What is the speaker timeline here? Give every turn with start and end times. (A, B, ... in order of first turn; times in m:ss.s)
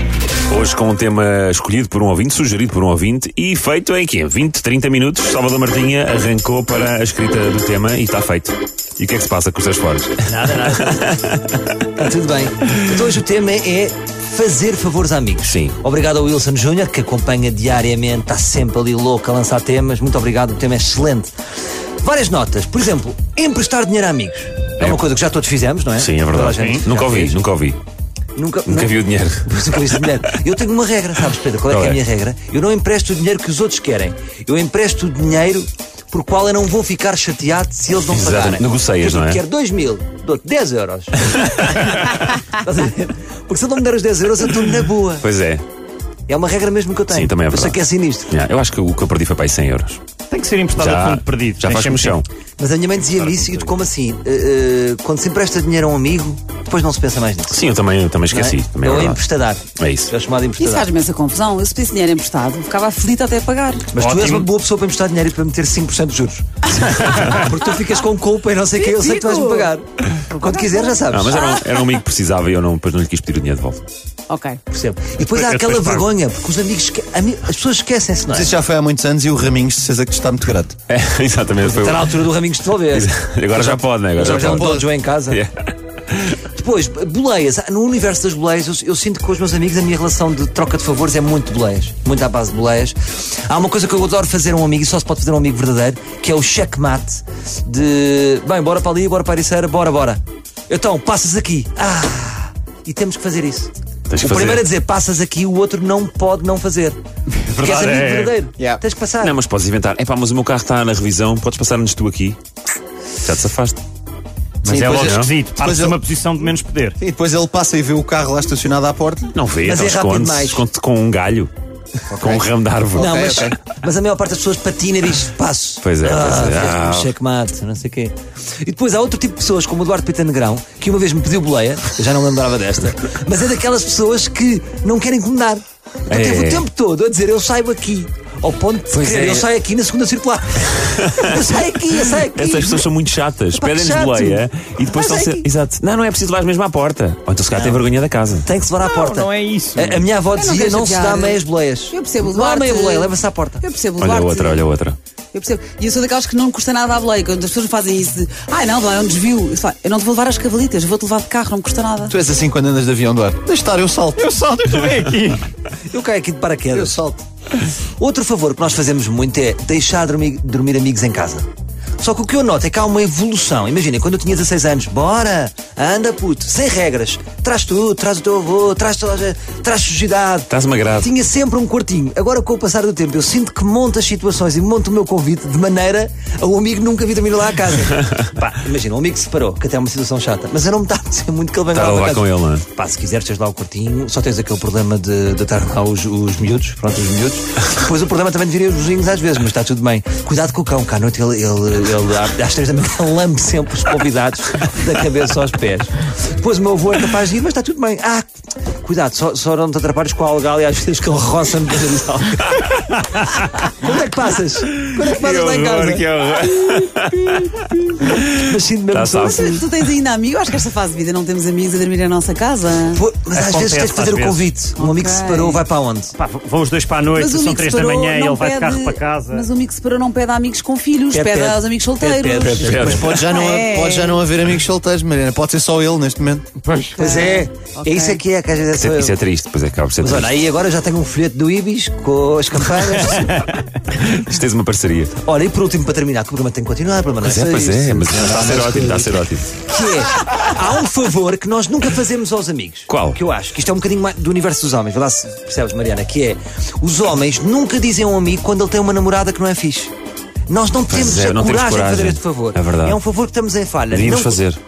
0:00.5-0:11.7 A
0:10.3-0:11.1 B
0:12.0-0:21.3 B
0:15.5-0:15.8 A
0:22.0-0:27.4 B
0:26.0-0:27.8 A
0:26.5-0:26.8 C
0:28.4-0:45.3 B
0:28.7-0:30.4 A
0:31.7-0:32.0 A
0:38.1-0:39.4 A
0:41.4-0:41.6 A
0:45.2-0:45.6 A
0:46.3-0:48.3 B
0:47.1-0:50.0 A
0:50.3-0:52.2 C
0:50.8-0:52.2 A
0:52.6-0:57.6 B
0:57.5-0:59.2 A
0:58.3-1:00.9 B
0:59.8-1:00.1 A
1:00.6-1:03.9 D
1:03.9-1:11.4 B
1:04.0-1:04.5 C
1:07.0-1:07.4 D
1:08.7-1:09.7 D
1:10.3-1:11.9 D
1:11.1-1:13.8 A
1:14.3-1:14.6 D
1:14.7-1:18.5 B
1:15.3-1:16.0 C
1:18.3-1:20.8 E
1:20.9-1:22.2 A
1:21.6-1:25.4 B
1:22.9-1:24.7 A
1:24.2-1:24.9 E
1:25.3-1:26.4 A
1:26.5-1:47.0 B
1:44.1-1:44.6 A
1:47.4-1:48.3 C
1:47.6-1:49.4 B
1:49.2-1:52.4 A
1:53.2-1:53.8 A
1:54.6-1:56.0 E
1:54.6-1:57.0 C
1:54.9-1:55.3 A
1:57.0-1:59.3 E
1:59.3-2:01.5 A
1:59.6-2:00.6 B
2:02.1-2:03.6 E
2:02.1-2:03.5 A
2:03.0-2:22.8 B
2:05.8-2:07.1 A
2:16.1-2:16.6 A
2:18.9-2:19.4 A
2:20.9-2:21.3 A
2:22.2-2:28.5 A
2:23.6-2:25.5 B
2:27.5-2:27.8 B
2:28.4-2:33.6 B
2:29.1-2:30.0 C
2:30.3-2:34.6 D
2:34.0-2:35.0 A
2:35.3-2:42.2 D
2:42.1-2:44.2 E
2:44.2-2:45.4 C
2:45.9-2:47.0 B
2:46.7-2:47.2 E
2:48.0-2:51.5 B
2:52.0-3:32.6 B
3:00.5-3:01.1 A
3:11.7-3:12.6 A
3:33.6-3:36.1 B
3:34.7-3:39.7 A
3:38.0-3:39.6 B
3:39.2-3:43.0 D
3:42.9-3:46.1 B
3:43.3-3:44.5 C
3:44.7-3:45.6 D
3:46.1-3:49.4 C
3:47.1-3:54.2 D
3:51.1-3:53.1 B
3:52.4-3:53.2 A
3:52.7-3:56.4 E
3:56.6-3:57.0 C
3:57.0-3:58.2 D
3:57.0-3:59.1 B
3:58.8-4:00.3 A
4:00.0-4:03.5 B
4:03.9-4:05.2 A
4:05.2-4:08.1 B
4:07.2-4:09.5 A
4:08.0-4:09.2 E
4:09.6-4:19.9 B
4:12.9-4:13.2 A
4:20.5-4:24.4 B
4:20.9-4:23.0 A
4:23.9-4:24.6 A